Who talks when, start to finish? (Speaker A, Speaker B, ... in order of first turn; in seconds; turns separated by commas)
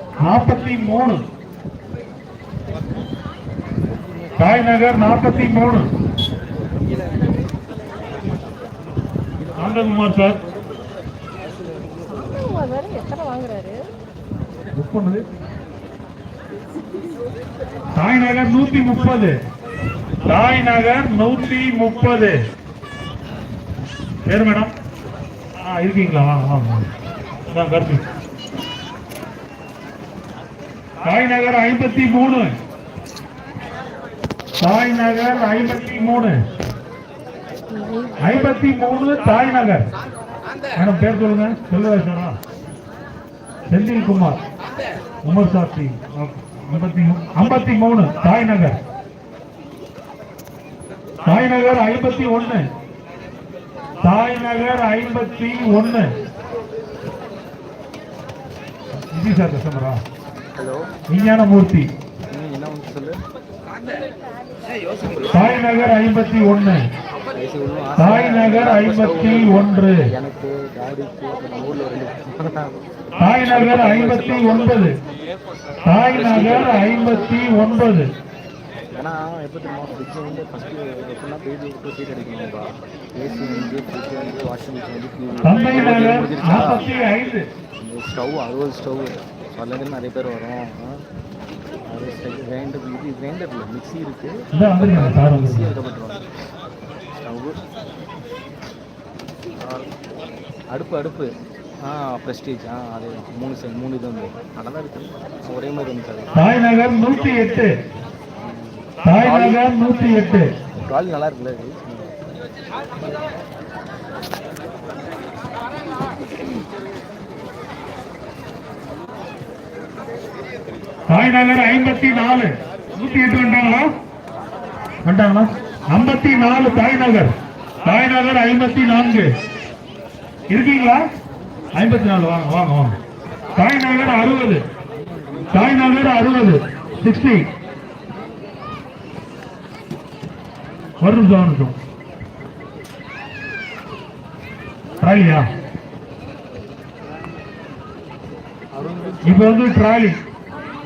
Speaker A: 0.2-1.2, Speaker A: 4.4-5.9, Speaker A: 9.6-10.4, Speaker B: 12.1-13.9, Speaker A: 14.7-15.2, Speaker A: 17.9-19.3, Speaker A: 20.2-22.4, Speaker A: 24.2-24.7, Speaker A: 25.6-26.9, Speaker A: 27.5-28.0, Speaker A: 31.0-32.5, Speaker A: 34.6-36.4, Speaker B: 37.7-38.2, Speaker A: 38.2-39.9, Speaker A: 40.8-42.4, Speaker A: 43.7-44.4, Speaker A: 45.2-48.8, Speaker A: 51.2-52.6, Speaker A: 54.0-56.1, Speaker A: 59.1-60.0, Speaker C: 60.5-60.8, Speaker A: 61.1-61.9, Speaker C: 62.3-63.2, Speaker A: 65.3-66.8, Speaker C: 67.3-72.8, Speaker A: 68.0-70.0, Speaker A: 73.2-74.9, Speaker C: 73.4-74.9, Speaker A: 75.8-78.1, Speaker C: 76.1-76.9, Speaker C: 78.9-86.9, Speaker A: 85.4-87.4, Speaker C: 87.8-91.0, Speaker C: 91.9-96.3, Speaker A: 94.5-95.7, Speaker C: 97.2-97.6, Speaker C: 99.6-99.9, Speaker C: 100.7-101.3, Speaker C: 101.8-106.6, Speaker A: 106.3-107.7, Speaker C: 108.4-109.6, Speaker A: 109.0-110.5, Speaker C: 110.8-112.1, Speaker A: 121.1-123.9, Speaker A: 125.0-127.3, Speaker A: 127.8-129.3, Speaker A: 130.5-131.0, Speaker A: 131.7-132.9, Speaker A: 133.6-134.6, Speaker C: 135.2-135.8, Speaker A: 135.5-137.4, Speaker A: 141.0-141.7, Speaker A: 145.0-145.5, Speaker C: 148.7-149.6, Speaker A: 149.2-150.2